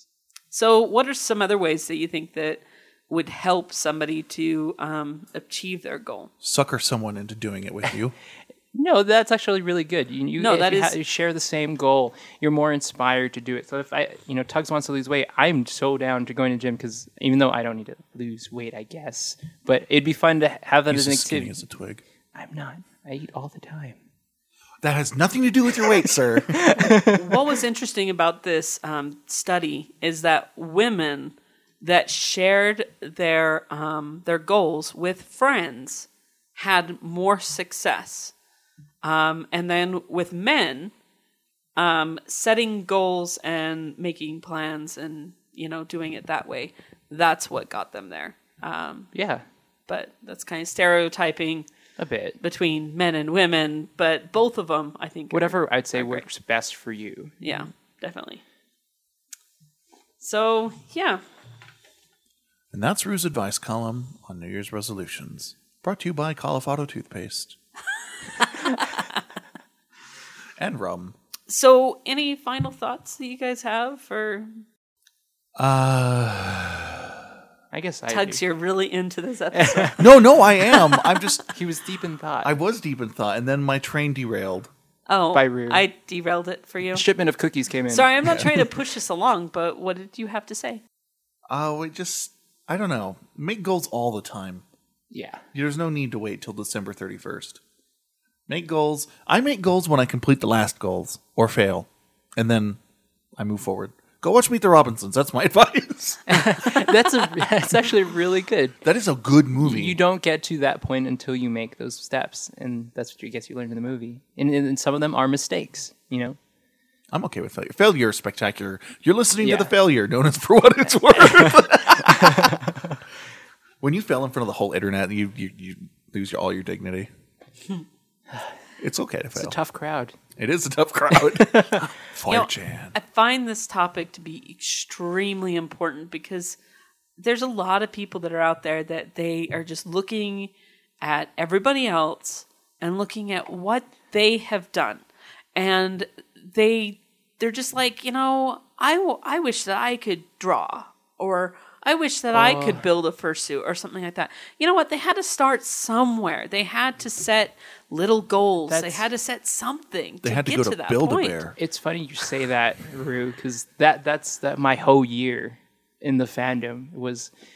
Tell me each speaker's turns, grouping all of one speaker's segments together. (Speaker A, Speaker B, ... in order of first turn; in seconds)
Speaker A: 0.5-6.3, 10.4-11.0, 26.9-38.3, 39.0-40.9, 41.8-49.1, 49.9-51.7, 52.4-56.2, 57.4-58.4, 60.2-61.2, 68.4-68.9, 71.5-74.6, 78.1-80.1, 85.1-87.0, 87.9-90.8, 132.3-136.6, 137.2-161.4
Speaker B: 6.4-8.1, 20.9-22.0, 24.8-26.6, 62.7-67.6, 70.6-71.1, 75.5-77.2, 80.0-81.5, 82.4-84.7, 91.5-94.6, 95.5-97.6, 98.5-102.8, 103.4-106.4, 108.8-110.0, 117.1-122.7, 123.8-127.1, 128.8-129.6, 130.4-132.9, 160.2-161.6
Speaker C: 8.7-21.5, 22.3-23.9, 26.6-27.2, 49.1-49.4, 52.0-52.4, 55.3-57.4, 77.7-78.4, 79.5-79.9, 81.5-82.5, 85.3-85.8, 86.9-88.5, 95.1-95.4, 106.3-108.8, 109.6-116.4, 119.4-119.7, 122.1-122.9, 129.3-130.2, 131.1-131.9, 152.3-152.8, 158.7-159.1, 161.6-167.3